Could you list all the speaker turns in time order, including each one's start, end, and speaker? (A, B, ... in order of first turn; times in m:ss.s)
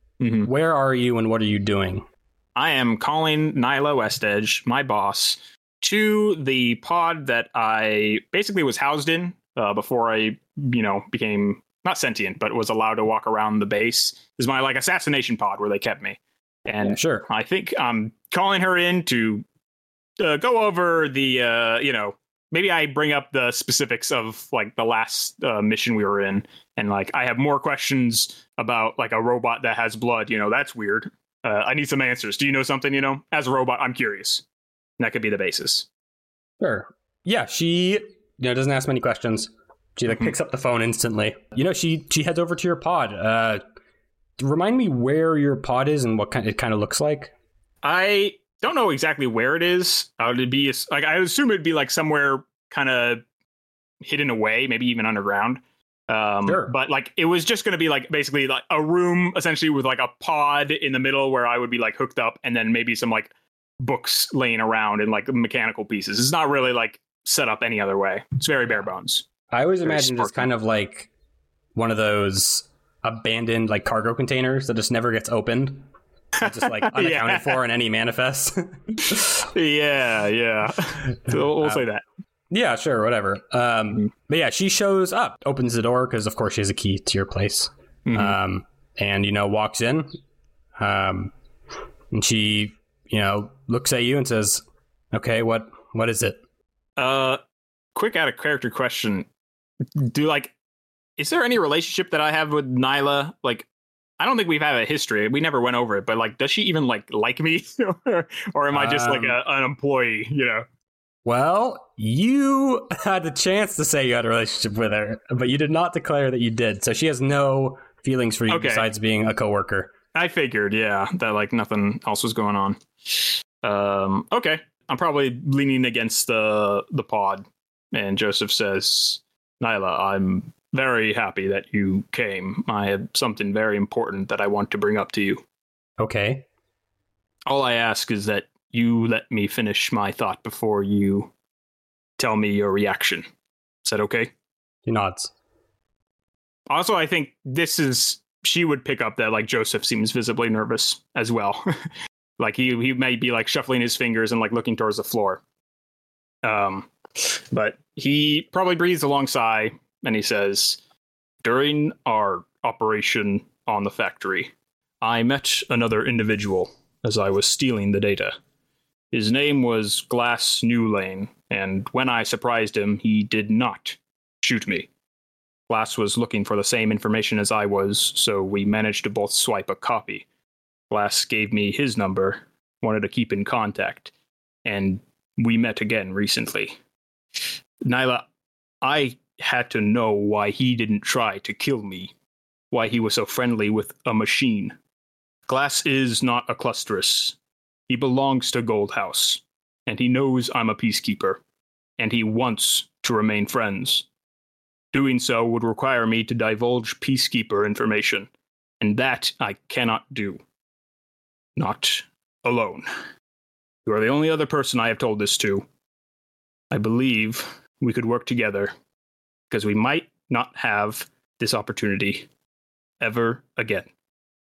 0:00.2-0:00.5 A
0:00.4-0:02.1 B
0:02.6-0:19.4 A
0:16.8-0:17.3 B
0:20.2-0:34.4 A
0:35.0-0:35.9 A
0:36.6-0:43.6 B
0:44.4-0:47.3 B
0:47.8-0:53.2 A
0:54.0-1:09.2 A
0:56.4-0:56.7 B
1:09.5-1:11.1 B
1:09.8-1:10.5 A
1:11.8-1:15.9 B
1:16.4-1:17.6 A
1:16.4-1:19.5 B
1:19.5-1:22.0 A
1:21.3-1:21.8 B
1:22.5-1:30.2 B
1:28.1-1:28.4 A
1:30.8-1:31.3 B
1:32.1-1:36.4 B
1:37.0-1:37.4 A
1:38.0-1:39.3 A
1:40.0-1:40.5 A
1:41.2-1:43.7 A
1:44.2-1:50.6 A
1:48.7-1:49.4 B
1:51.2-1:59.9 B
1:58.5-1:58.9 A
2:00.1-2:15.4 A
2:16.0-2:16.5 B
2:17.5-2:21.3 A
2:22.2-2:23.3 A
2:23.8-2:24.3 A
2:24.8-2:25.3 B
2:26.7-2:31.7 A
2:32.4-2:35.4 A
2:36.4-2:40.8 A
2:41.4-2:48.4 A
2:49.1-2:54.9 A
2:55.7-3:00.2 A
3:00.9-3:04.1 A
3:04.6-3:06.8 A
3:07.8-3:08.2 A
3:08.8-3:12.1 A
3:12.7-3:14.7 A
3:15.5-3:17.4 A
3:17.9-3:21.4 A
3:22.0-3:24.1 A
3:24.9-3:28.3 A
3:28.8-3:30.4 A
3:31.6-3:32.9 A
3:33.9-3:35.7 A
3:36.7-3:38.7 A
3:39.5-3:42.3 A
3:43.0-3:43.9 A